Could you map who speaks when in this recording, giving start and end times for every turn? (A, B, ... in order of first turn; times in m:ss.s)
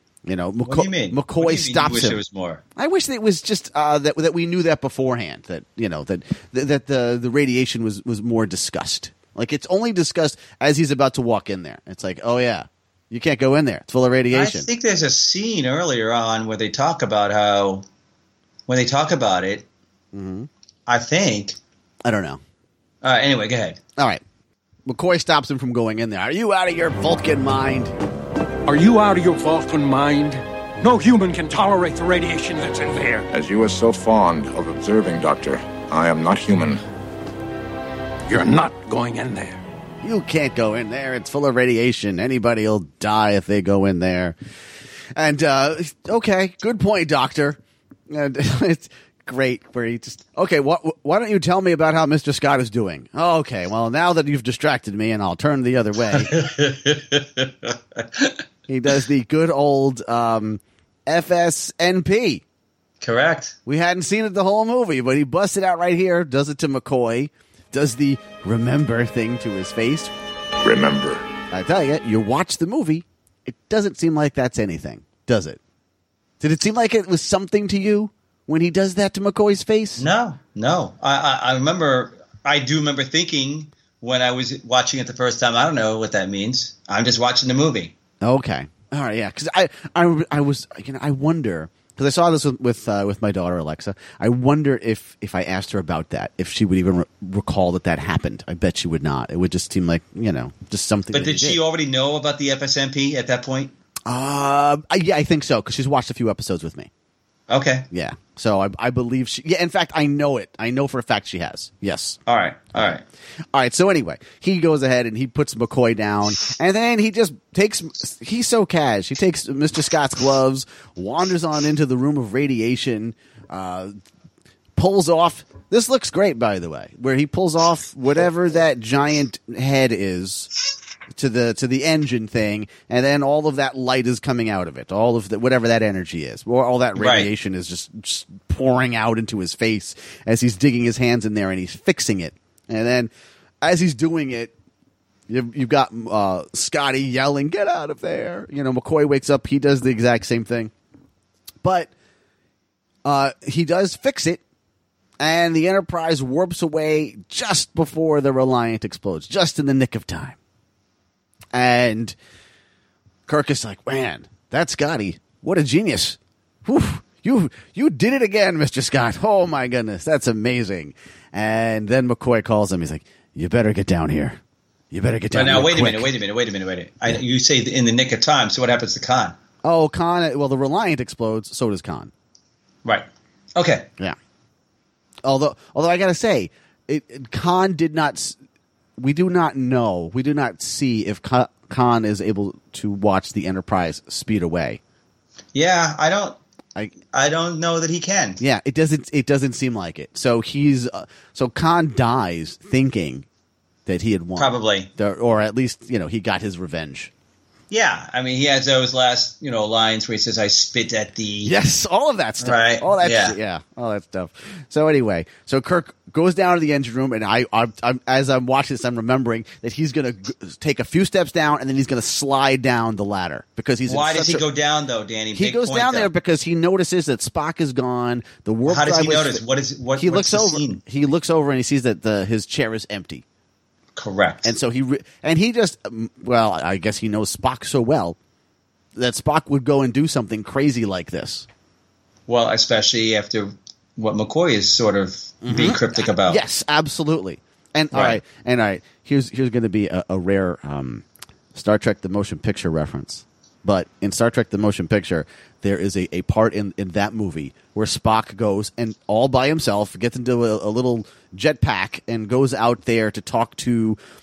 0:00.2-0:02.2 A
0:00.7-0:02.6 B
0:02.8-0:14.7 A
0:14.3-0:17.8 B
0:18.7-0:19.6 B
0:20.1-0:20.5 A
0:20.9-0:21.6 B
0:22.0-0:22.4 A
0:23.0-0:23.8 B
0:24.0-0:24.2 A
0:24.8-0:27.9 A
0:28.6-0:33.2 C
0:33.3-0:36.8 D
0:38.3-0:39.6 C
0:40.0-0:44.3 A
0:45.2-0:47.6 A
0:48.1-0:56.3 A
0:56.1-0:58.4 B
0:58.7-1:02.4 A
1:03.0-1:03.5 B
1:03.6-1:10.1 A
1:10.6-1:11.2 D
1:11.5-1:15.6 A
1:16.4-1:20.0 A
1:20.0-1:27.9 B
1:28.2-1:41.6 A
1:41.1-1:43.7 B
1:44.1-1:46.9 A
1:47.5-1:47.8 B
1:47.9-1:52.2 A
1:52.3-1:53.0 B
1:53.5-2:03.9 A
2:04.8-2:10.5 A
2:11.1-2:23.1 A
2:17.0-2:17.3 B
2:23.6-2:24.5 A
2:25.3-2:30.7 A
2:31.6-2:31.9 A
2:33.0-2:34.4 A
2:35.2-2:40.4 A
2:41.5-2:42.1 A
2:43.3-2:54.4 A
2:54.9-2:56.1 A
2:55.3-2:59.3 B
2:59.6-3:02.1 A
3:02.8-3:03.9 B
3:05.2-3:08.4 A
3:09.0-3:14.8 A
3:15.5-3:16.4 B
3:17.1-3:18.4 B
3:18.4-3:23.2 A
3:23.8-3:27.1 A
3:24.4-3:24.9 B
3:27.7-3:31.5 B
3:31.4-3:44.4 A
3:32.4-3:33.3 B
3:43.9-3:46.1 B
3:45.3-3:49.4 A
3:48.7-3:50.8 B
3:50.0-3:53.2 A
3:54.0-3:54.5 B
3:54.4-3:58.2 A
3:59.0-4:01.4 A
4:02.3-4:06.4 B
4:05.4-4:24.0 A
4:07.9-4:08.2 B